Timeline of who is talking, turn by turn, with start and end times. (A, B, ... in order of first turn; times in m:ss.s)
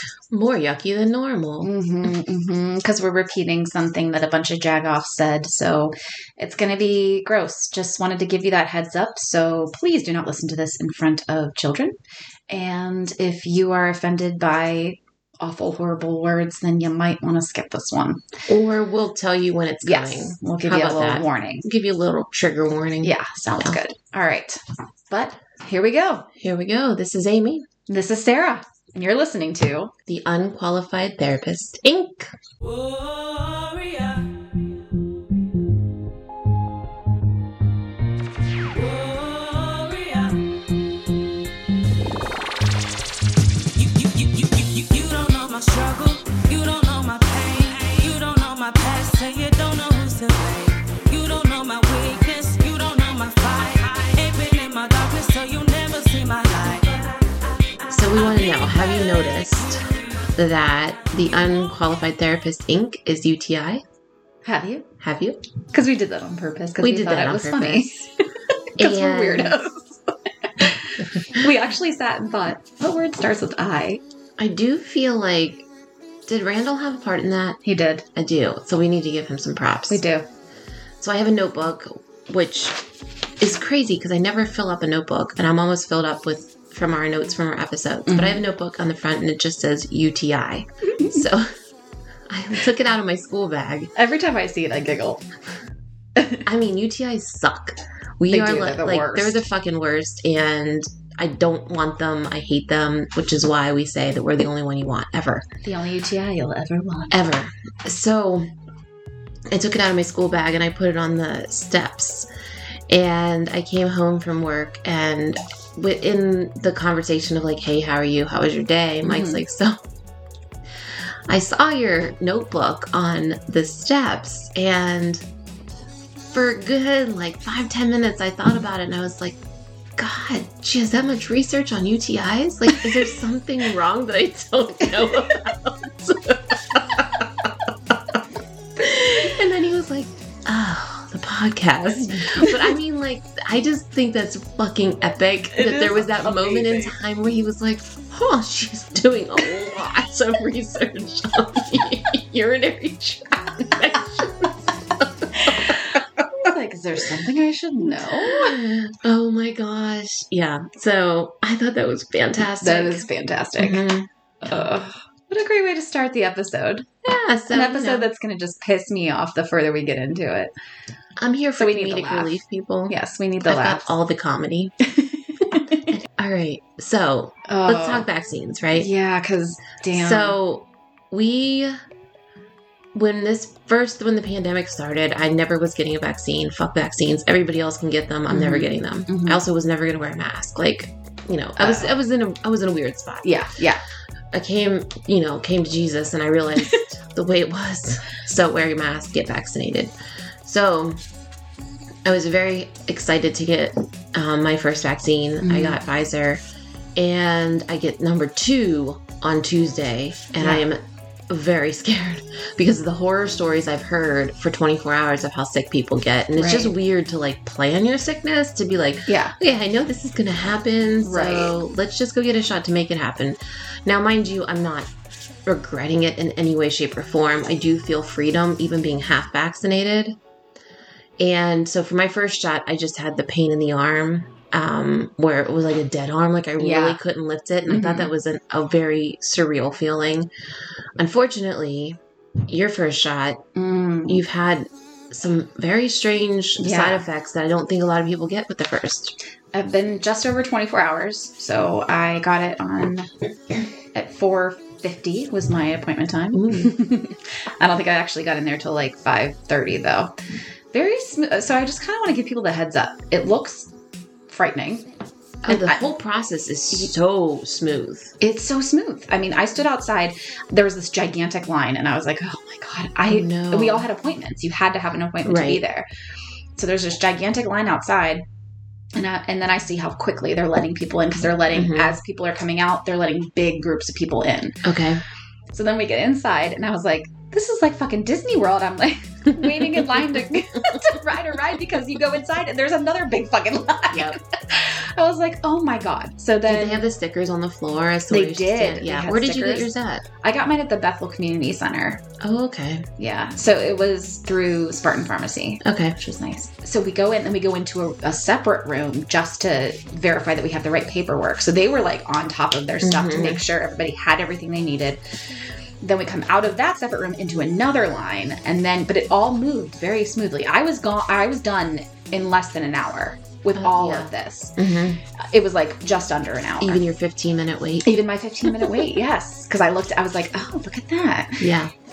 0:00.3-0:01.7 A
0:01.6-0:12.0 B
0:12.5-0:18.2 B
0:18.5-0:23.8 A
0:19.8-0:21.7 B
0:23.0-0:26.3 B
0:26.4-0:27.7 A
0:27.9-0:29.9 B
0:30.1-0:32.3 A
0:32.6-0:34.7 C
0:38.6-0:40.4 C
0:43.8-0:57.4 C
0:57.9-1:03.8 A
0:58.2-0:59.1 C
1:04.4-1:04.9 B
1:05.0-1:05.4 A
1:05.7-1:08.1 B
1:06.8-1:08.1 A
1:08.8-1:14.0 B
1:08.8-1:09.6 A
1:11.2-1:11.5 A
1:14.4-1:15.7 A
1:16.3-1:17.6 A
1:17.6-1:18.1 B
1:18.1-1:20.0 A
1:19.9-1:20.3 B
1:21.0-1:22.8 A
1:23.4-1:31.5 A
1:28.1-1:28.4 B
1:32.3-1:33.9 A
1:34.0-1:35.2 B
1:36.2-1:36.5 B
1:36.4-1:45.5 A
1:38.3-1:39.4 B
1:45.6-1:47.2 B
1:47.1-1:48.5 A
1:49.5-1:52.3 A
1:52.9-1:59.8 A
1:59.1-1:59.4 B
2:00.9-2:05.2 A
2:06.3-2:09.4 A
2:10.0-2:18.2 A
2:18.8-2:36.0 A
2:22.2-2:22.6 B
2:25.6-2:27.0 B
2:35.3-2:38.6 B
2:37.9-2:43.0 A
2:42.6-2:43.8 B
2:43.6-2:44.7 A
2:44.4-2:46.9 B
2:47.0-2:48.1 A
2:47.5-2:50.5 B
2:51.2-2:54.8 A
2:51.6-2:52.4 B
2:52.9-2:53.9 B
2:55.0-2:55.9 B
2:55.8-2:58.9 A
2:57.5-2:58.1 B
2:58.8-3:00.4 B
2:59.9-3:01.8 A
3:02.9-3:13.3 A
3:08.3-3:09.4 B
3:11.6-3:11.9 B
3:13.2-3:13.8 B
3:14.3-3:19.9 A
3:20.4-3:21.0 A
3:22.0-3:26.4 A
3:25.4-3:25.8 B
3:27.0-3:44.9 A
3:30.4-3:30.7 B
3:36.4-3:36.7 B
3:39.1-3:39.4 B
3:41.0-3:41.6 B
3:45.5-3:50.2 A
3:51.2-4:00.3 A
3:56.6-3:57.0 B
3:57.7-3:58.1 B
4:01.0-4:03.4 A
4:03.6-4:04.2 B
4:04.1-4:09.2 A
4:06.6-4:07.0 B
4:09.5-4:13.1 B
4:13.9-4:20.2 B
4:16.3-4:16.8 A
4:20.7-4:23.7 B
4:24.3-4:24.9 B
4:25.5-4:25.9 B
4:25.5-4:28.1 A
4:28.2-4:35.9 B
4:33.1-4:33.9 A
4:35.2-4:35.6 A
4:36.6-4:38.2 B
4:39.0-4:44.6 B
4:41.5-4:42.0 A
4:44.6-4:45.0 A
4:45.5-4:56.8 B
4:49.4-4:49.8 A
4:53.9-4:54.2 A
4:56.5-5:00.0 A
4:58.1-5:02.0 B
5:02.2-5:02.9 A
5:03.0-5:15.0 B
5:05.6-5:06.0 A
5:12.8-5:13.4 A
5:15.8-5:26.8 B
5:23.6-5:25.0 A
5:26.6-5:28.8 A
5:27.8-5:31.4 B
5:31.4-5:31.7 A